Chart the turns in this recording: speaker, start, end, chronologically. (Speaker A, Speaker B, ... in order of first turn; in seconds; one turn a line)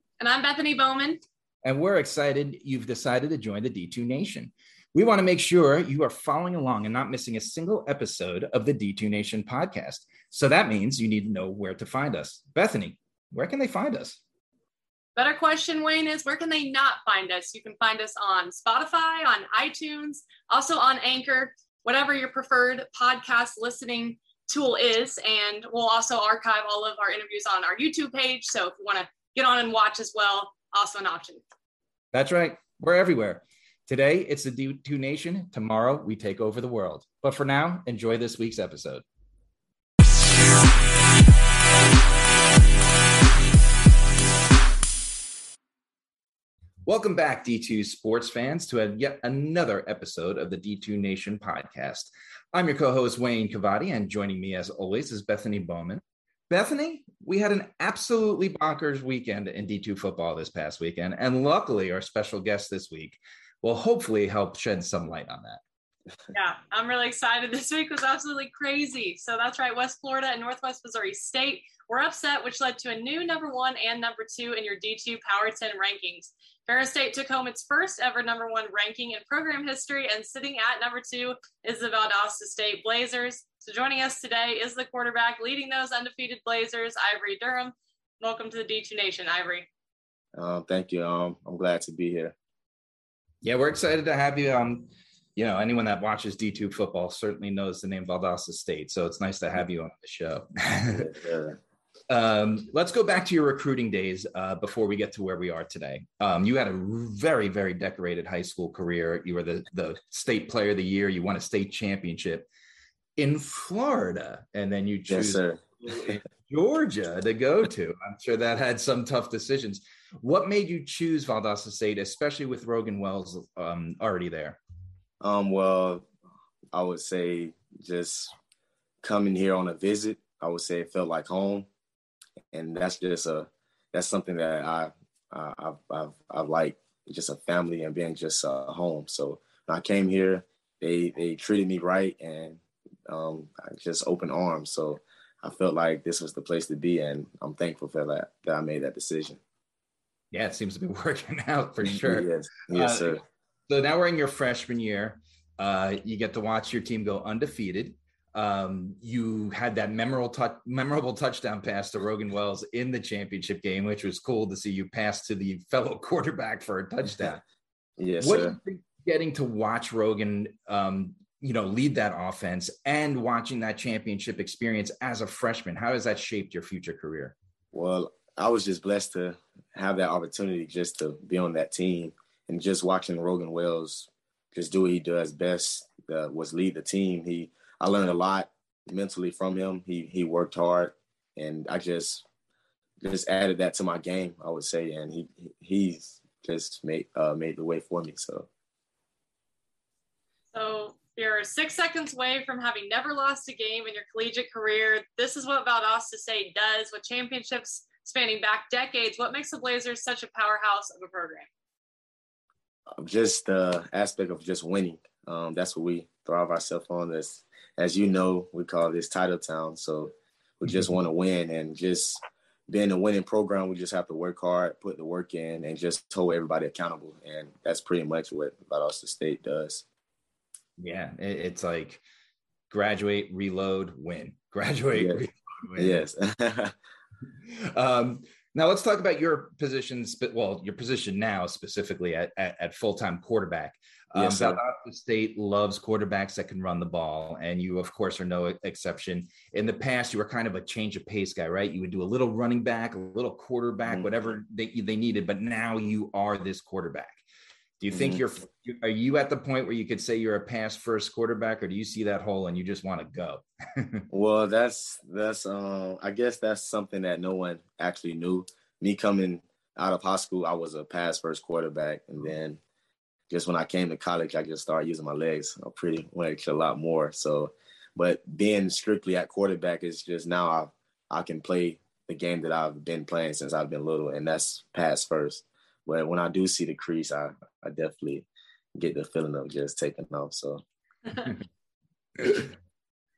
Speaker A: 0.2-1.2
Speaker B: 1.6-14.2
Speaker A: 15.2-31.4
Speaker B: 32.1-39.0
Speaker B: 46.9-65.6
Speaker A: 66.3-89.7
Speaker C: 90.4-92.3
Speaker B: 93.4-101.1
Speaker C: 100.9-101.6
Speaker B: 102.1-112.5
Speaker B: 113.2-124.6
Speaker C: 115.1-116.2
Speaker C: 125.2-126.1
Speaker C: 126.7-128.3
Speaker C: 129.0-131.7
Speaker C: 132.5-149.4
Speaker B: 150.3-167.4
Speaker C: 151.8-153.2
Speaker C: 168.0-168.6
Speaker B: 168.2-177.4
Speaker C: 177.7-192.2
Speaker C: 193.0-198.5
Speaker A: 200.5-211.5
Speaker C: 212.9-229.8
Speaker B: 230.8-232.0
Speaker B: 232.7-236.1
Speaker C: 234.9-235.2
Speaker C: 235.8-236.7
Speaker B: 237.5-257.2
Speaker C: 244.1-244.6
Speaker B: 257.8-264.1
Speaker C: 257.9-258.2
Speaker C: 264.1-272.6
Speaker C: 273.3-290.6
Speaker A: 291.1-291.4